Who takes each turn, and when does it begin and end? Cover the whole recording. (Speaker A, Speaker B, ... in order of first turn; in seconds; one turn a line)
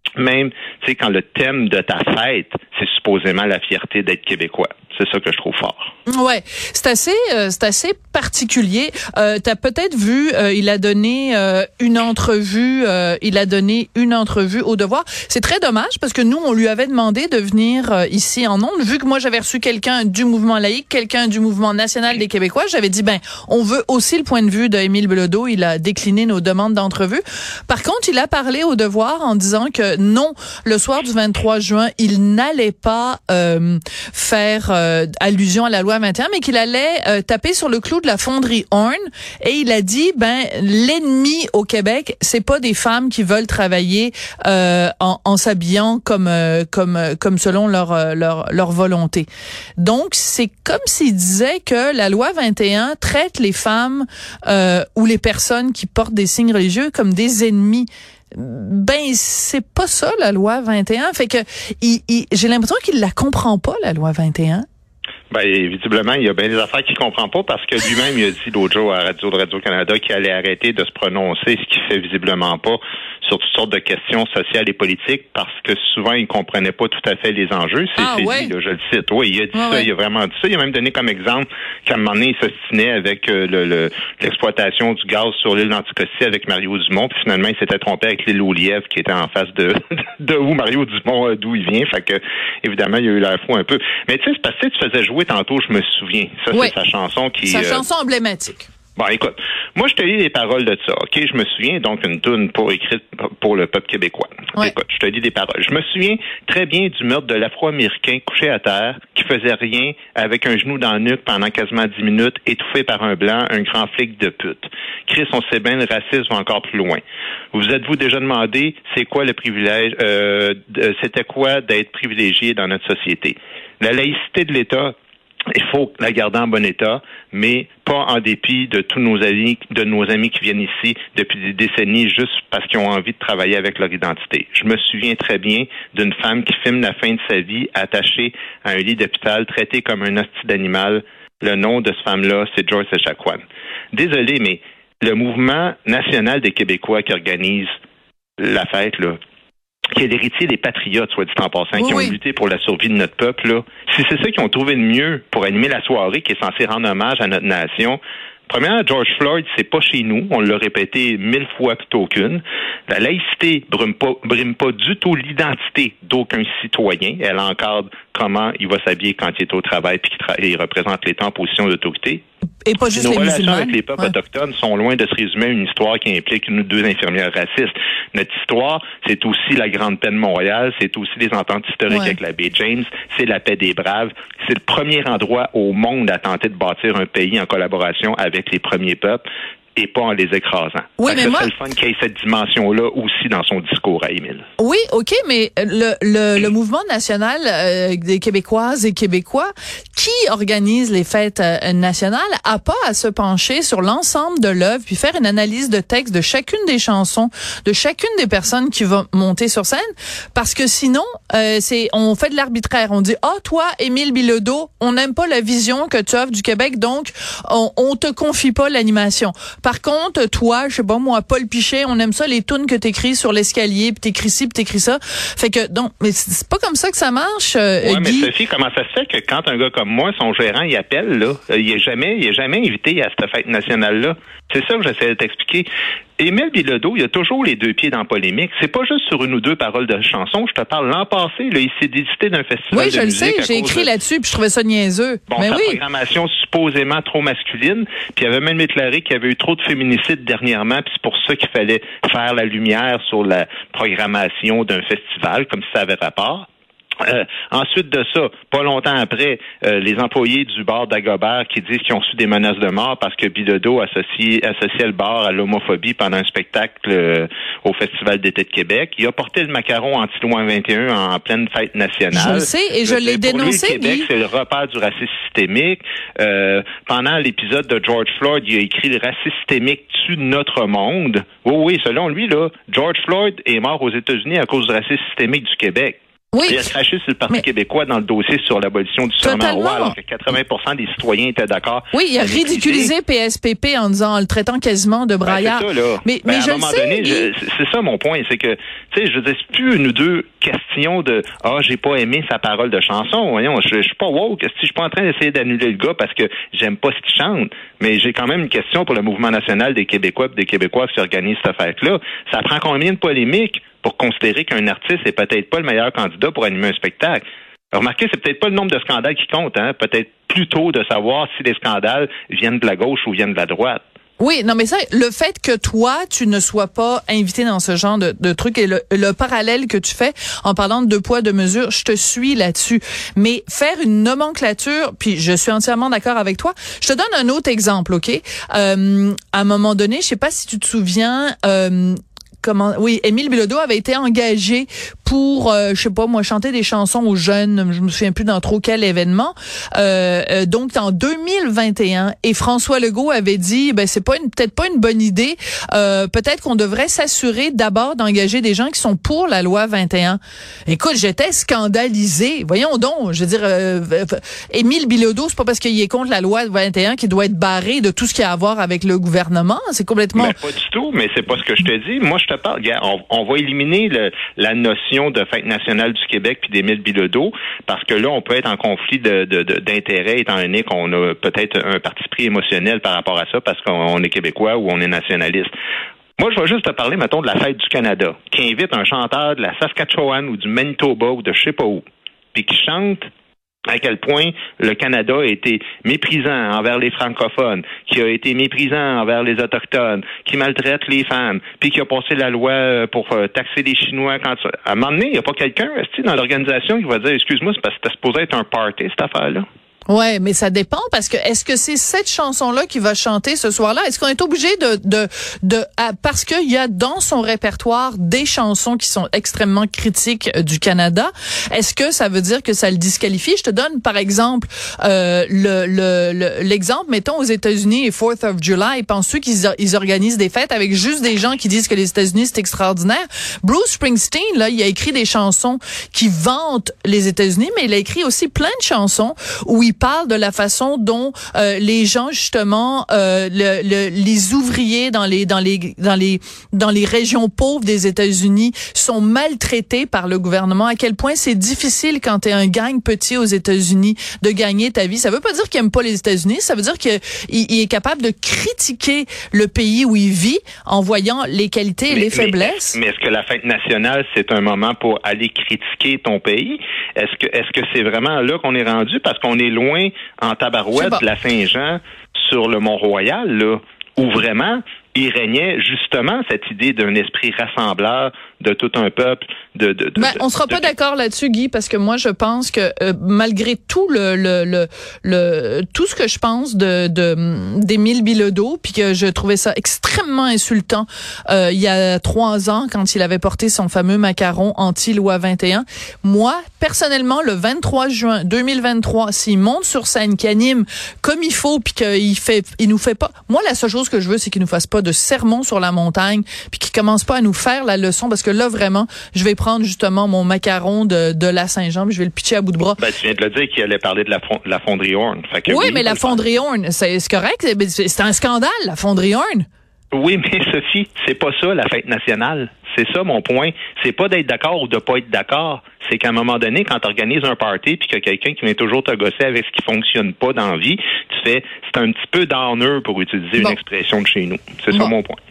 Speaker A: 0.2-5.9
Speaker B: 6.1-49.3
Speaker B: 49.8-64.6
Speaker A: 65.3-97.8
Speaker B: 78.0-78.5
Speaker B: 79.5-79.9
Speaker B: 97.4-98.7
Speaker A: 99.0-117.0
Speaker A: 117.5-124.9
Speaker A: 125.5-143.4
Speaker A: 143.9-147.7
Speaker A: 148.4-149.2
Speaker A: 149.9-172.2
Speaker B: 151.8-152.2
Speaker B: 172.6-174.1
Speaker A: 172.9-194.4
Speaker B: 181.9-182.2
Speaker B: 191.0-191.5
Speaker B: 194.6-228.3
Speaker A: 227.8-235.7
Speaker A: 236.2-243.9
Speaker B: 242.7-245.8
Speaker A: 245.3-256.5
Speaker A: 257.0-292.9
Speaker B: 272.1-274.1
Speaker B: 286.3-286.7
Speaker B: 289.2-289.9
Speaker B: 291.9-297.3
Speaker A: 295.2-323.8
Speaker B: 324.2-370.4
Speaker A: 370.1-385.5
Speaker A: 386.2-393.1
Speaker A: 393.7-409.4
Speaker B: 409.9-462.8
Speaker A: 461.9-480.7
Speaker B: 470.7-471.0
Speaker B: 480.0-512.8
Speaker A: 512.8-516.2
Speaker B: 515.5-519.5
Speaker A: 519.9-535.2